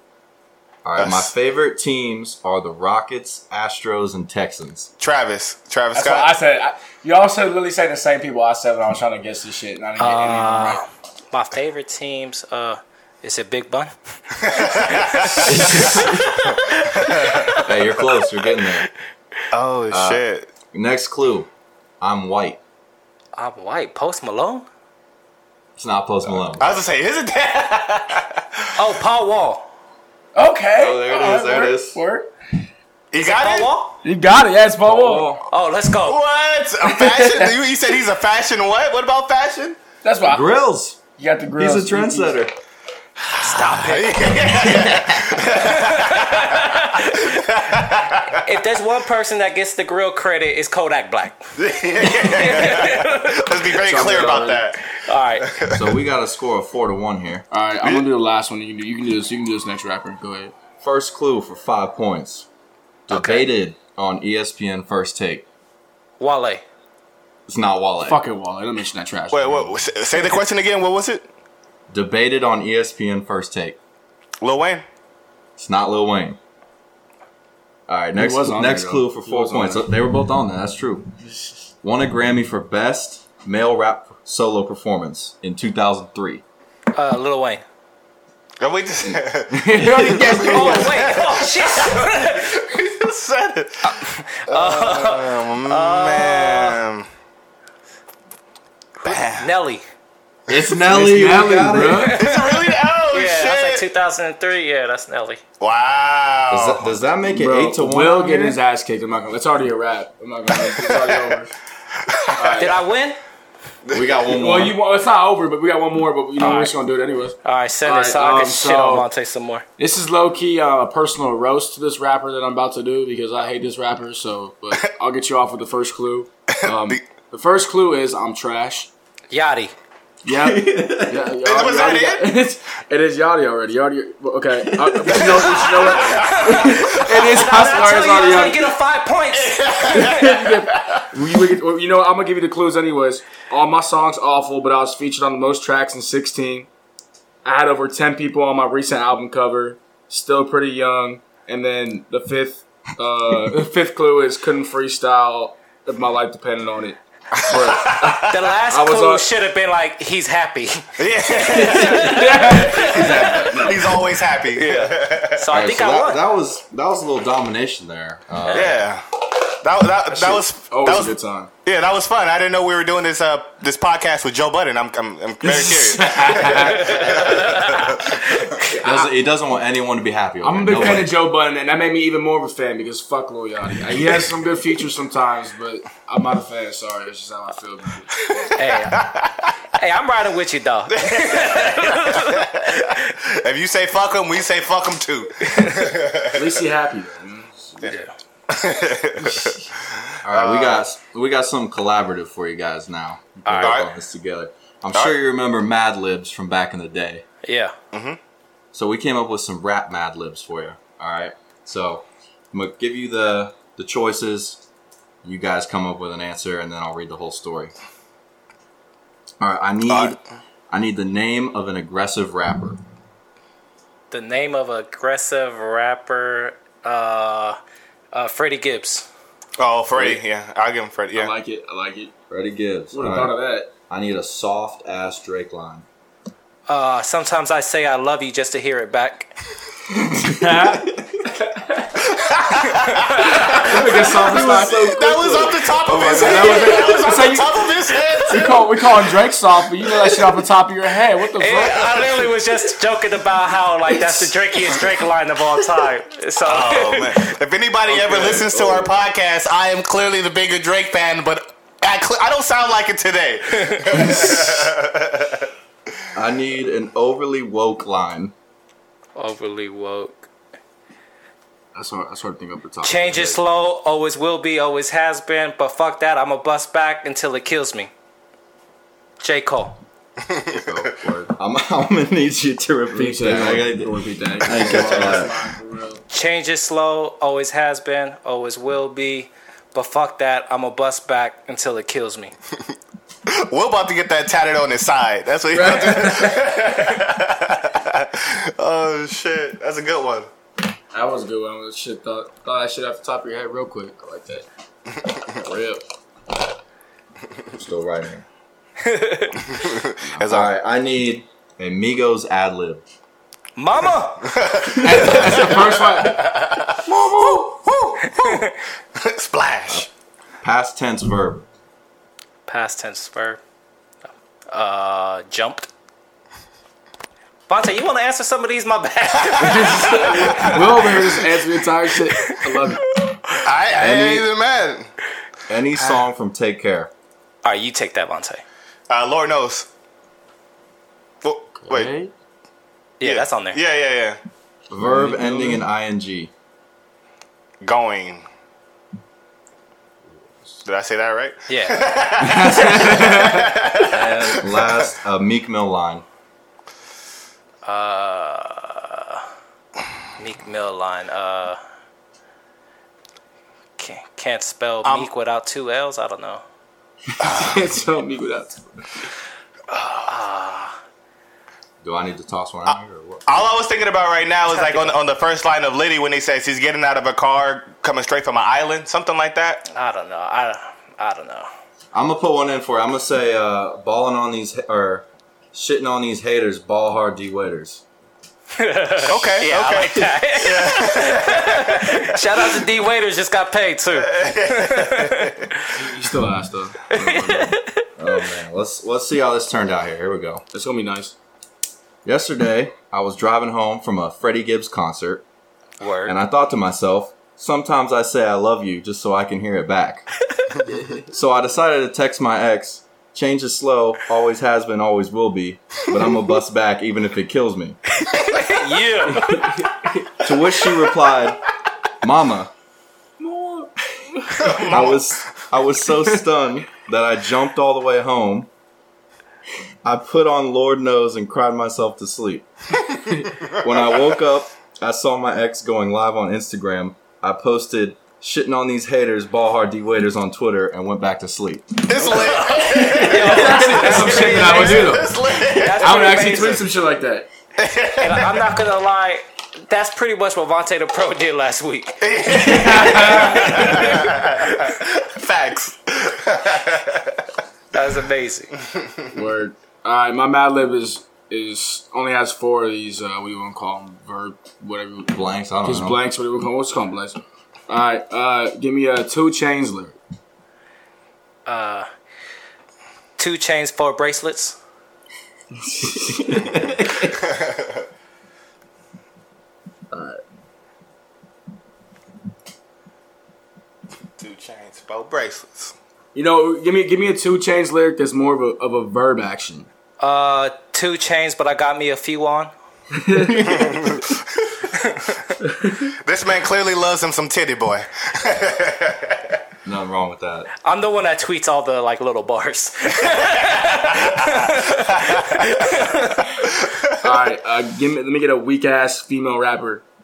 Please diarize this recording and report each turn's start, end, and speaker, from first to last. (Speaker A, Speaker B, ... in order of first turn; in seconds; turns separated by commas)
Speaker A: 0.8-4.9, Speaker B: 1.0-1.3, Speaker B: 5.0-6.3, Speaker C: 5.9-10.8, Speaker D: 10.0-17.7, Speaker B: 14.4-16.0, Speaker A: 15.4-16.5, Speaker B: 16.6-17.6, Speaker A: 17.5-18.9, Speaker B: 19.5-20.5, Speaker A: 19.9-20.2, Speaker A: 20.7-21.5, Speaker A: 22.0-22.6, Speaker D: 23.4-24.7, Speaker A: 25.8-26.8, Speaker B: 26.6-28.6, Speaker D: 28.8-29.7, Speaker C: 30.3-32.3, Speaker A: 30.8-32.0, Speaker B: 33.1-33.7, Speaker D: 33.1-34.0, Speaker C: 34.0-35.4, Speaker A: 34.8-35.4, Speaker D: 35.5-36.2, Speaker B: 36.0-39.8, Speaker C: 36.8-37.5, Speaker C: 40.0-40.6, Speaker A: 40.2-41.0, Speaker C: 41.2-42.4, Speaker A: 41.5-42.5, Speaker B: 43.3-48.4, Speaker D: 43.4-44.4, Speaker A: 44.5-45.4, Speaker D: 45.5-47.5, Speaker D: 48.4-51.4, Speaker B: 51.6-55.9, Speaker D: 52.0-54.2, Speaker C: 53.8-54.6, Speaker D: 54.8-55.6, Speaker A: 55.7-57.5, Speaker C: 57.5-60.5, Speaker A: 60.8-62.5, Speaker A: 63.1-65.5, Speaker D: 63.1-63.5, Speaker D: 66.2-66.6, Speaker A: 67.5-68.2, Speaker C: 68.0-69.8, Speaker B: 69.3-71.2, Speaker A: 71.9-73.8, Speaker B: 74.4-74.8, Speaker A: 75.6-76.4, Speaker A: 77.9-81.1, Speaker C: 78.1-79.9, Speaker C: 81.2-81.7, Speaker A: 81.8-86.4, Speaker D: 86.9-87.6, Speaker B: 88.6-97.1, Speaker C: 89.5-91.1, Speaker D: 90.1-92.6, Speaker D: 93.8-96.8, Speaker D: 99.0-99.8, Speaker B: 99.0-99.5, Speaker A: 100.5-102.2, Speaker C: 100.8-102.2, Speaker D: 102.0-105.4, Speaker B: 102.1-103.8, Speaker B: 105.6-107.0, Speaker A: 106.5-108.6, Speaker C: 107.3-111.5, Speaker B: 110.8-111.2, Speaker B: 112.1-112.6, Speaker C: 112.3-112.8, Speaker D: 112.6-113.2, Speaker A: 113.9-114.8, Speaker C: 114.2-119.1, Speaker D: 116.4-116.7, Speaker D: 117.4-119.6, Speaker C: 119.8-128.9, Speaker B: 126.6-127.0, Speaker D: 129.3-129.7, Speaker C: 130.2-138.7, Speaker A: 130.3-131.3, Speaker B: 131.4-132.4, Speaker A: 134.6-135.2, Speaker B: 135.2-136.7, Speaker D: 135.5-140.4, Speaker B: 139.3-141.1, Speaker C: 139.9-146.7, Speaker C: 147.4-159.2, Speaker B: 157.3-158.3, Speaker D: 158.3-161.0, Speaker B: 161.0-165.4, Speaker D: 161.5-163.7, Speaker C: 161.5-164.0, Speaker D: 164.5-166.2, Speaker A: 165.5-168.8, Speaker D: 168.4-168.7, Speaker B: 168.5-178.6, Speaker C: 170.1-171.5, Speaker C: 175.4-177.2, Speaker D: 176.6-178.6, Speaker C: 178.7-179.1, Speaker A: 178.7-181.1, Speaker C: 180.4-188.3, Speaker B: 188.3-189.5, Speaker D: 188.5-189.1, Speaker D: 189.8-193.1, Speaker B: 190.9-196.5, Speaker D: 195.4-195.8, Speaker C: 196.3-198.0, Speaker D: 197.8-198.1, Speaker B: 198.5-200.8, Speaker A: 200.2-207.2, Speaker D: 203.4-203.8, Speaker B: 203.6-203.9, Speaker D: 207.4-207.7, Speaker B: 207.9-208.2, Speaker A: 208.7-214.6, Speaker A: 215.2-217.7, Speaker A: 219.4-222.8, Speaker B: 219.9-220.1, Speaker D: 224.1-227.6, Speaker D: 228.1-229.1, Speaker B: 229.6-231.3, Speaker C: 229.9-230.2, Speaker C: 231.1-232.1, Speaker A: 232.3-235.8, Speaker C: 232.9-233.7, Speaker D: 236.7-239.3, Speaker C: 239.9-241.9, Speaker A: 240.6-241.3, Speaker B: 242.1-248.7, Speaker D: 242.7-243.6, Speaker C: 243.2-245.0, Speaker A: 243.6-246.6, Speaker C: 245.9-252.2, Speaker D: 246.2-247.3, Speaker D: 251.4-257.2, Speaker B: 256.4-265.5, Speaker C: 257.9-258.9, Speaker D: 263.5-264.2, Speaker A: 266.1-268.3, Speaker D: 269.1-270.3, Speaker C: 271.7-273.4, Speaker D: 272.8-277.9, Speaker D: 279.2-279.8, Speaker C: 280.4-281.3, Speaker A: 281.4-285.4, Speaker C: 282.9-286.0, Speaker B: 284.8-285.1, Speaker D: 286.1-292.3, Speaker B: 293.3-300.3, Speaker C: 295.5-296.7, Speaker C: 300.9-304.4, Speaker C: 305.3-305.8, Speaker A: 307.5-308.2, Speaker D: 308.8-309.6, Speaker B: 309.5-310.5, Speaker A: 310.2-312.8, Speaker D: 313.6-314.3, Speaker B: 314.2-319.9, Speaker A: 314.7-315.5, Speaker C: 314.8-316.3, Speaker C: 316.9-317.5, Speaker D: 318.0-318.5, Speaker A: 320.4-321.4, Speaker D: 322.5-323.4, Speaker D: 324.5-325.7, Speaker D: 327.5-331.2, Speaker C: 329.4-332.8, Speaker B: 329.5-331.1, Speaker D: 332.1-332.6, Speaker B: 333.4-334.9, Speaker A: 333.7-334.2, Speaker A: 335.5-336.9, Speaker D: 337.4-338.4, Speaker B: 338.9-339.7, Speaker B: 341.2-341.9, Speaker C: 341.6-342.1, Speaker D: 343.0-343.6, Speaker B: 343.0-344.2, Speaker C: 344.7-345.6, Speaker A: 344.7-346.3, Speaker B: 347.6-348.2, Speaker B: 350.6-354.2, Speaker D: 351.5-351.9, Speaker C: 352.2-353.5, Speaker D: 353.9-354.4, Speaker A: 354.2-356.0, Speaker D: 357.6-359.2, Speaker D: 360.2-361.6, Speaker D: 363.8-366.4, Speaker B: 364.8-365.1, Speaker C: 367.2-369.1, Speaker B: 369.7-370.1, Speaker D: 370.1-370.8, Speaker A: 371.8-373.4, Speaker B: 372.6-379.6, Speaker D: 374.5-375.0, Speaker D: 379.7-381.5, Speaker A: 381.9-387.8, Speaker D: 388.6-395.5, Speaker B: 389.1-392.6, Speaker B: 393.9-395.5, Speaker C: 395.7-397.6, Speaker D: 396.9-397.9, Speaker A: 398.0-400.4, Speaker C: 400.5-401.1, Speaker A: 402.0-405.2, Speaker D: 405.8-406.1, Speaker A: 406.0-410.1, Speaker C: 410.7-411.1, Speaker A: 411.1-417.8, Speaker D: 418.0-419.6, Speaker C: 419.1-420.0, Speaker A: 420.2-421.4, Speaker A: 422.0-422.5, Speaker C: 423.2-424.8, Speaker B: 424.4-425.0, Speaker A: 424.6-428.5, Speaker A: 429.8-432.5, Speaker A: 433.5-442.0, Speaker B: 433.5-433.9, Speaker B: 441.9-446.4, Speaker D: 442.0-446.7, Speaker C: 442.9-445.2, Speaker C: 445.7-447.3, Speaker B: 447.6-448.4, Speaker D: 448.0-454.7, Speaker B: 452.0-457.2, Speaker C: 452.3-453.9, Speaker D: 457.7-458.5, Speaker C: 459.1-470.0, Speaker A: 465.1-466.0, Speaker D: 471.4-471.9, Speaker D: 473.2-474.6, Speaker C: 475.6-476.6, Speaker A: 476.2-477.1, Speaker C: 479.9-480.2, Speaker B: 484.2-485.7, Speaker C: 486.1-489.7, Speaker D: 490.0-492.5, Speaker C: 492.9-493.9, Speaker B: 493.5-494.2, Speaker D: 494.7-495.2, Speaker C: 495.4-495.9, Speaker B: 496.0-499.2, Speaker A: 499.6-500.5, Speaker D: 500.6-506.5, Speaker B: 504.0-504.3, Speaker B: 505.1-505.5, Speaker B: 506.6-506.9, Speaker C: 507.0-509.8